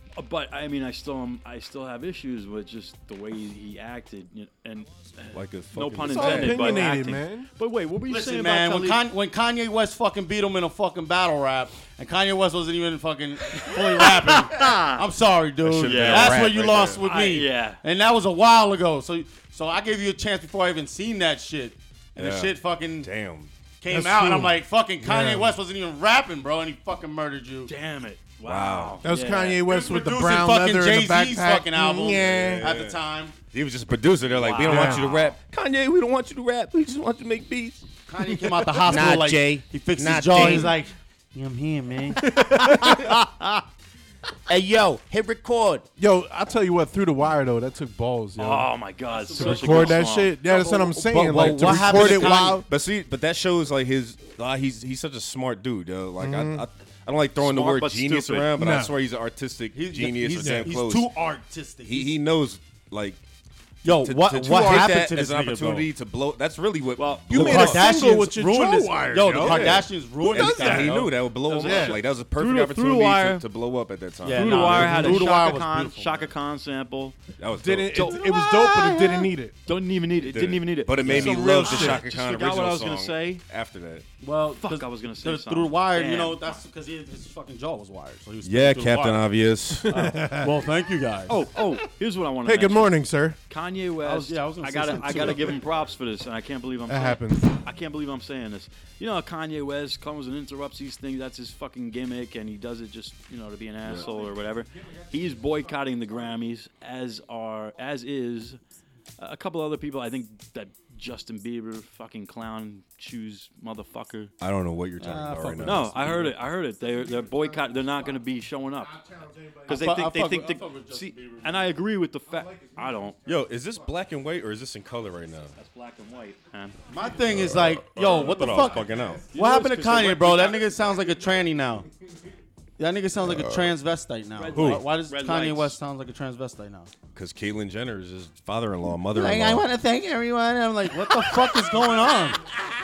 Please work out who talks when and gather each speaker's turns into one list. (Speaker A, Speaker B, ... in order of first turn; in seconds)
Speaker A: 0.2-9.1, 13.5-15.0, 15.8-16.5, 17.0-17.8, 27.7-29.6, 34.4-35.3, 48.4-50.4, 57.4-58.6, 67.0-67.3, 71.4-73.4, 74.3-77.2, 77.9-78.3, 79.7-83.4, 84.5-86.6, 91.3-108.6, 109.2-114.3, 115.6-118.9, 119.7-123.2, 125.6-126.8, 129.3-130.7, 134.4-135.8
Speaker B: 5.3-6.9, 15.6-17.0, 22.2-23.5, 28.4-29.0, 32.1-37.8, 38.9-40.7, 44.5-45.8, 51.3-61.1, 61.9-63.2, 63.8-67.9, 69.3-75.2, 77.4-78.2, 80.2-84.0, 88.4-90.1, 114.4-116.4, 123.3-125.5, 127.3-129.2, 133.2-133.7, 134.5-134.8, 137.1-139.7
Speaker C: 6.1-7.5, 23.9-25.6, 29.0-32.7, 34.6-35.1, 38.3-39.0, 42.2-43.2, 46.0-48.7, 49.4-52.7, 56.2-56.6, 58.6-58.9, 60.4-60.7, 67.3-72.0, 74.7-75.2, 77.5-79.6, 81.1-82.0, 89.8-90.6, 92.4-93.4, 95.1-95.6, 96.9-97.6, 103.9-106.4, 116.8-118.2, 118.7-120.0, 122.3-124.0, 127.0-127.5, 128.0-129.3, 130.9-131.5
Speaker D: 8.1-23.1, 23.8-27.7, 29.6-33.4, 38.1-42.9, 49.1-52.6, 59.7-62.2, 63.8-65.9, 67.3-71.1, 74.2-76.3, 78.6-78.9, 84.2-89.3, 89.9-91.4, 94.0-95.6, 115.0-116.0, 119.7-121.8, 126.9-131.9, 132.8-136.9, 139.1-142.5